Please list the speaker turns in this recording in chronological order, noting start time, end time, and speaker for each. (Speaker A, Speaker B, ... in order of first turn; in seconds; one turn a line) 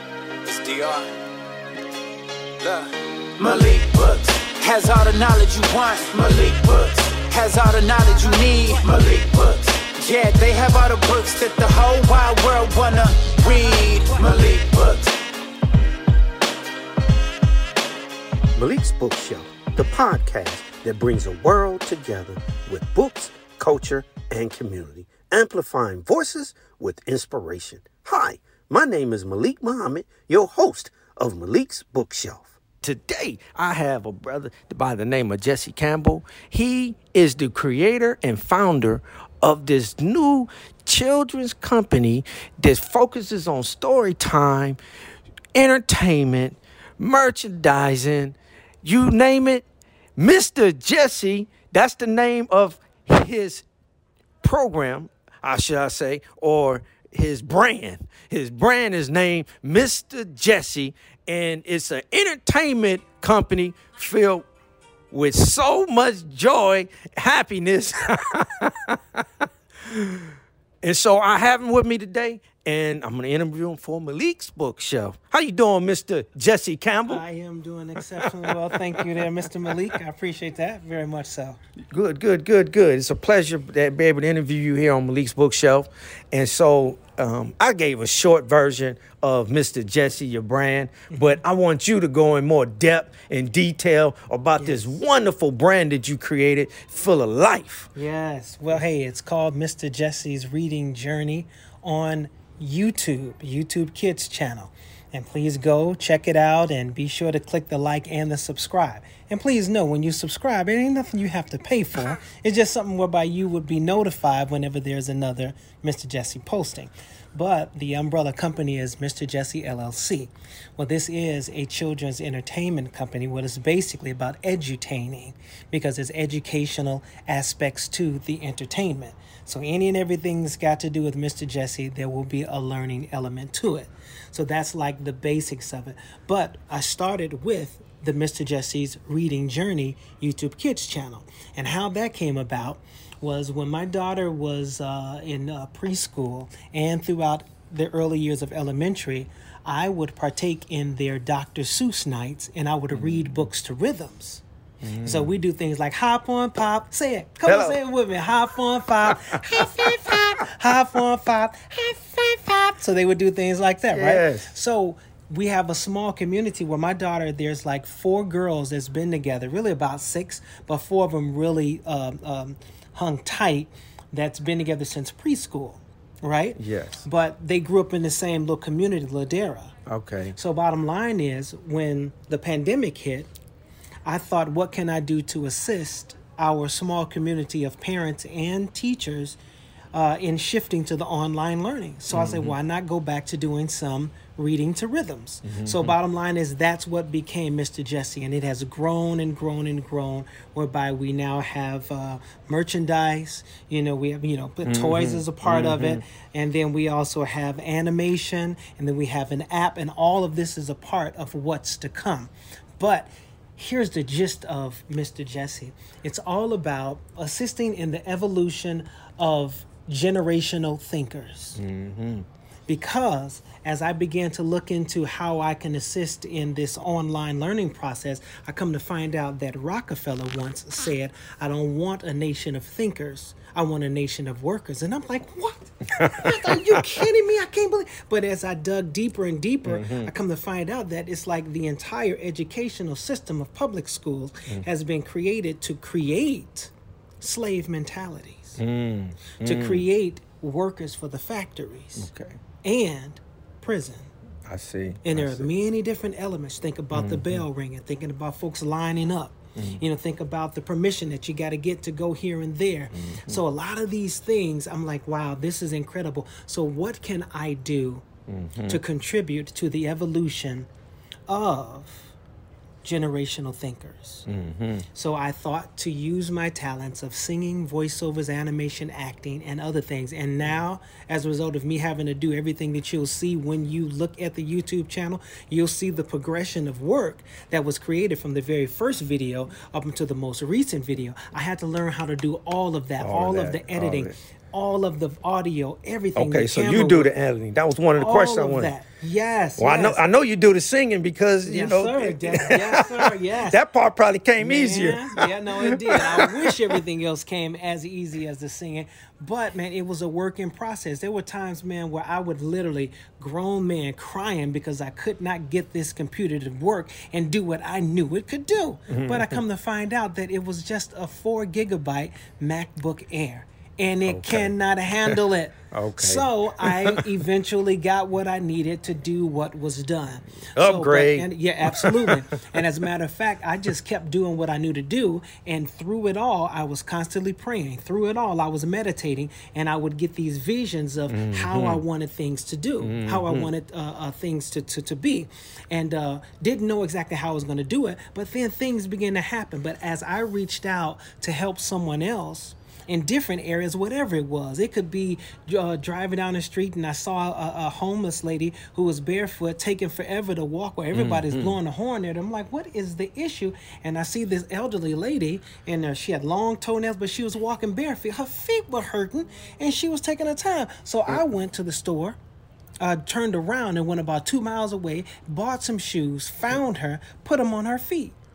Speaker A: 0.4-1.1
Speaker A: 2.6-15.2
Speaker B: 18.5-44.8
Speaker B: 45.5-49.6
Speaker B: 50.2-53.6
Speaker B: 54.4-64.5
Speaker B: 65.1-77.2
Speaker C: 77.1-81.6
Speaker B: 78.2-79.8
Speaker B: 81.9-97.9
Speaker C: 91.1-91.4
Speaker C: 94.6-94.8
Speaker C: 97.9-154.4
Speaker B: 152.9-153.4
Speaker B: 154.8-155.3
Speaker C: 155.0-179.7
Speaker B: 157.4-157.8
Speaker B: 159.1-159.7
Speaker B: 163.9-164.5
Speaker B: 176.6-177.1
Speaker B: 179.9-180.4
Speaker C: 180.3-183.3
Speaker C: 184.1-189.4
Speaker C: 189.9-221.6
Speaker B: 192.1-192.6
Speaker B: 195.4-195.9
Speaker B: 204.6-206.0
Speaker B: 221.6-222.2
Speaker C: 222.7-248.6
Speaker B: 236.0-236.8
Speaker B: 239.7-240.1
Speaker B: 248.6-249.8
Speaker C: 249.4-252.1
Speaker B: 252.0-252.4
Speaker C: 252.6-254.1
Speaker B: 254.4-255.5
Speaker C: 255.0-268.0
Speaker B: 256.9-257.4
Speaker B: 259.6-259.8
Speaker B: 262.9-263.4
Speaker B: 268.3-268.8
Speaker C: 268.7-270.7
Speaker C: 271.3-272.1
Speaker C: 272.8-274.3
Speaker B: 274.3-274.9
Speaker C: 274.9-297.1
Speaker B: 293.0-294.1
Speaker B: 296.1-298.7
Speaker C: 298.0-300.0
Speaker B: 299.6-306.8
Speaker C: 301.4-303.6
Speaker C: 304.4-372.2
Speaker B: 318.9-319.4
Speaker B: 324.1-324.5
Speaker B: 325.7-327.2
Speaker B: 330.5-332.6
Speaker B: 341.1-341.8
Speaker B: 342.8-343.5
Speaker B: 360.9-361.6
Speaker C: 372.8-378.1